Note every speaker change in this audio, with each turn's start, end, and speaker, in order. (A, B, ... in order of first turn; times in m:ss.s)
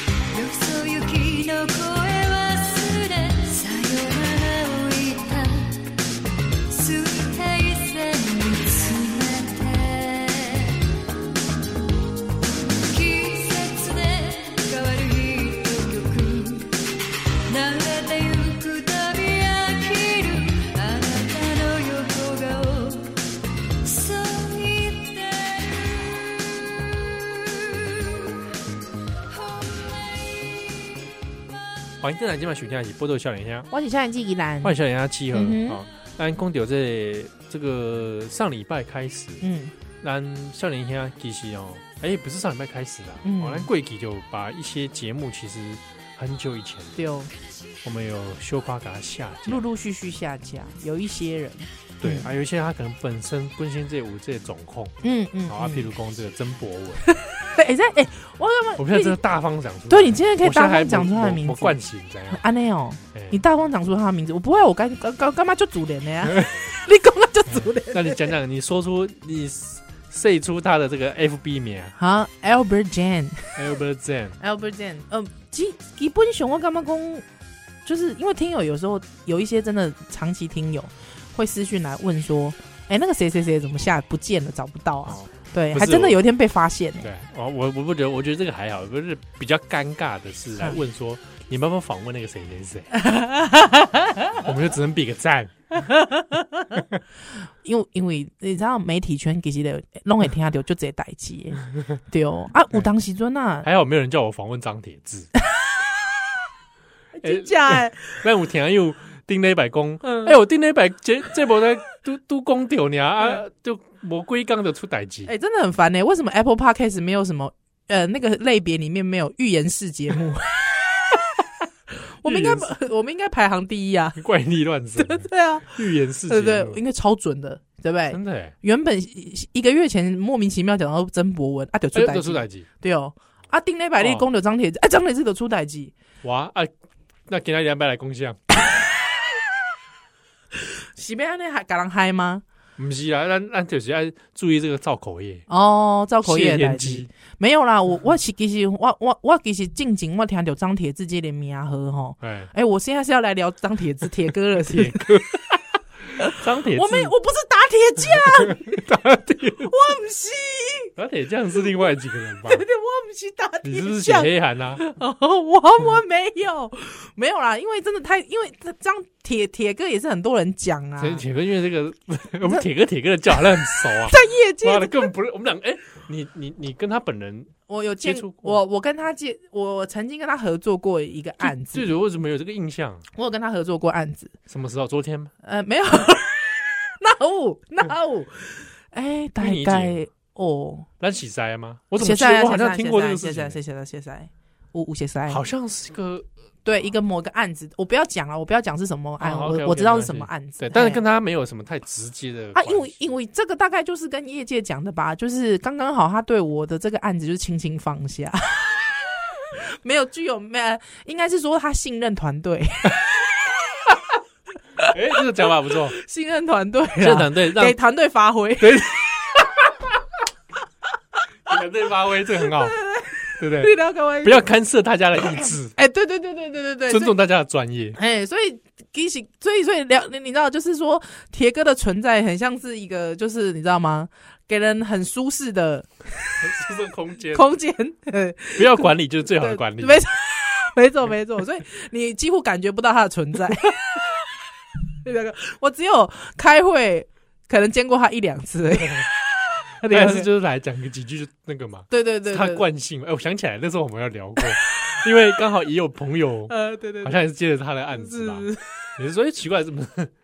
0:00.3-0:05.9 A
0:06.7-0:10.8 A
0:12.9-0:16.8 A
0:17.5-0:23.2 A
0:23.8-0:28.2 A
0:29.3-0:30.6 A
0:32.0-0:33.7 B
0:33.7-0:34.8 C
0:34.6-0:39.4 B
0:35.3-0:35.8 C
0:39.4-0:39.7 C
0:40.0-0:47.0 B
0:43.2-0:43.7 C
0:47.0-0:47.3 C
0:47.8-0:49.6 B
0:49.5-0:52.3 C
0:52.0-0:55.0 B
0:55.0-0:55.9 C
0:55.5-0:57.1 B
0:57.1-0:59.2 C
0:58.8-1:02.4 B
0:59.9-1:01.8 C
1:02.3-1:08.3 C
1:03.1-1:03.4 B
1:06.2-1:06.6 B
1:07.5-1:11.9 B
1:12.0-1:13.6 C
1:13.6-1:14.4 B
1:14.4-1:17.2 C
1:17.8-1:27.1 C
1:25.1-1:26.2 B
1:27.0-1:32.9 B
1:32.9-1:34.3 C
1:34.3-1:35.5 B
1:35.8-1:36.6 C
1:37.6-1:43.7 C
1:43.6-1:45.3 B
1:47.2-1:48.2 C
1:47.2-1:55.3 B
1:50.0-1:50.4 C
1:55.2-2:01.2 C
2:01.9-2:04.2 C
2:02.2-2:02.7 B
2:04.2-2:06.8 B
2:05.0-2:15.9 C
2:08.1-2:08.5 B
2:11.9-2:12.6 B
2:14.0-2:14.2 B
2:16.2-2:16.7 B
2:17.3-2:18.4 B
2:20.9-2:22.4 C
2:22.8-2:25.4 B
2:25.5-2:35.2 C
2:26.2-2:27.1 B
2:32.2-2:32.5 B
2:34.6-2:35.4 B
2:36.1-2:38.8 C
2:36.2-2:37.1 B
2:38.2-2:39.7 B
2:39.4-2:40.9 C
2:41.0-2:42.6 B
2:42.5-2:51.2 C
2:43.6-2:44.8 B
2:51.0-2:58.6 B
2:53.6-2:55.1 C
2:57.7-3:01.9 C
3:01.4-3:03.0 B
3:03.1-3:04.4 C
3:04.5-3:05.3 B
3:05.4-3:10.9 C
3:09.4-3:10.0 B
3:11.0-3:13.6 B
3:12.0-3:15.4 C
3:15.3-3:16.3 B
3:16.6-3:21.0 C
3:19.2-3:23.1 B
3:22.5-3:33.9 C
3:34.9-3:36.0 B
3:35.9-3:39.4 C
3:37.0-3:37.8 B
3:38.6-3:39.6 B
3:41.4-3:42.8 B
3:42.4-3:44.5 C
3:43.4-3:45.7 B
3:45.8-3:47.1 C
3:46.9-3:48.0 B
3:47.9-3:56.5 C
3:56.4-3:57.4 B
3:57.3-4:04.2 C
3:58.6-4:00.0 B
4:05.0-4:10.3 C
4:09.8-4:20.1 B
4:11.9-4:12.6 C
4:16.5-4:17.1 C
4:17.9-4:18.8 C